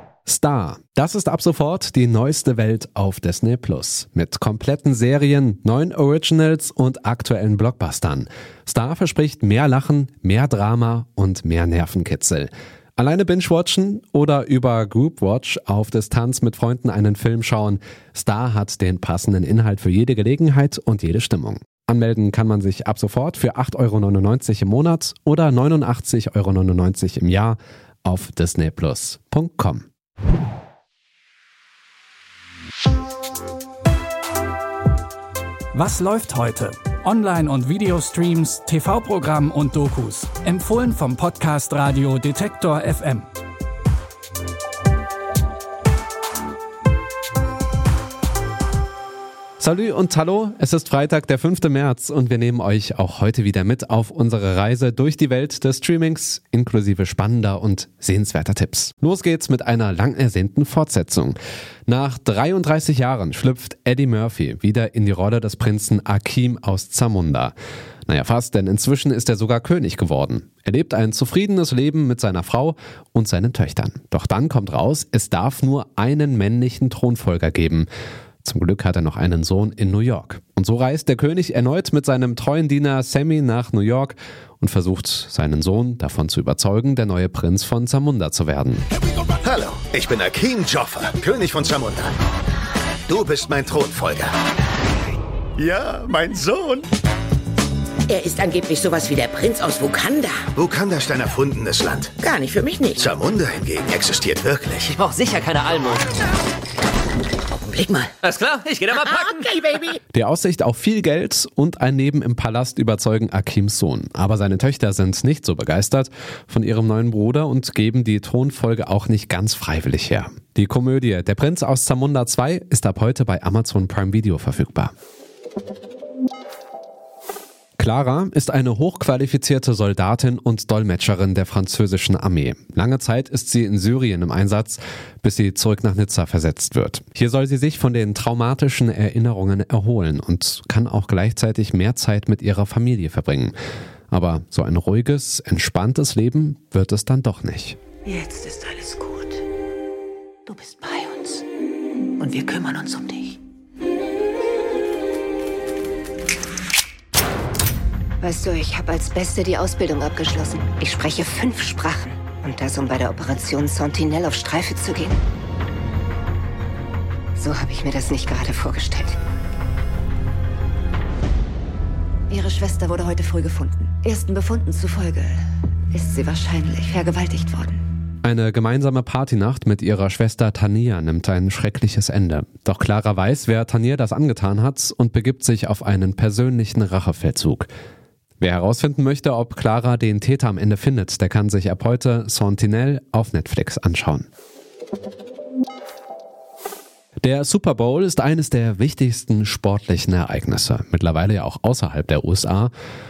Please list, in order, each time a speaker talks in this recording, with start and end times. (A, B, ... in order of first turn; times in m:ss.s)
0:00.2-0:29.9 A
0:35.7-0:43.3 B
0:49.6-1:07.6 A
1:08.1-1:17.9 A
1:18.4-1:28.8 A
1:29.4-1:32.1 C
1:33.1-1:34.3 C
1:35.6-1:36.9 C
1:38.1-1:40.5 D
1:40.6-1:42.2 C
1:42.2-1:43.1 D
1:42.9-1:45.0 C
1:44.9-1:46.1 E
1:47.6-1:48.1 D
1:48.2-1:49.7 E
1:48.9-1:50.0 D
1:50.1-2:04.9 A
2:07.8-2:23.6 A
2:24.1-2:27.8 A
2:28.1-2:29.4 D
2:30.5-2:31.4 D
2:32.2-2:33.4 D
2:38.2-2:45.2 F
2:47.4-2:49.2 F
2:52.3-2:55.4 F
2:55.9-2:57.8 F
2:58.2-3:07.7 A
3:08.4-3:14.3 A
3:17.2-3:22.7 A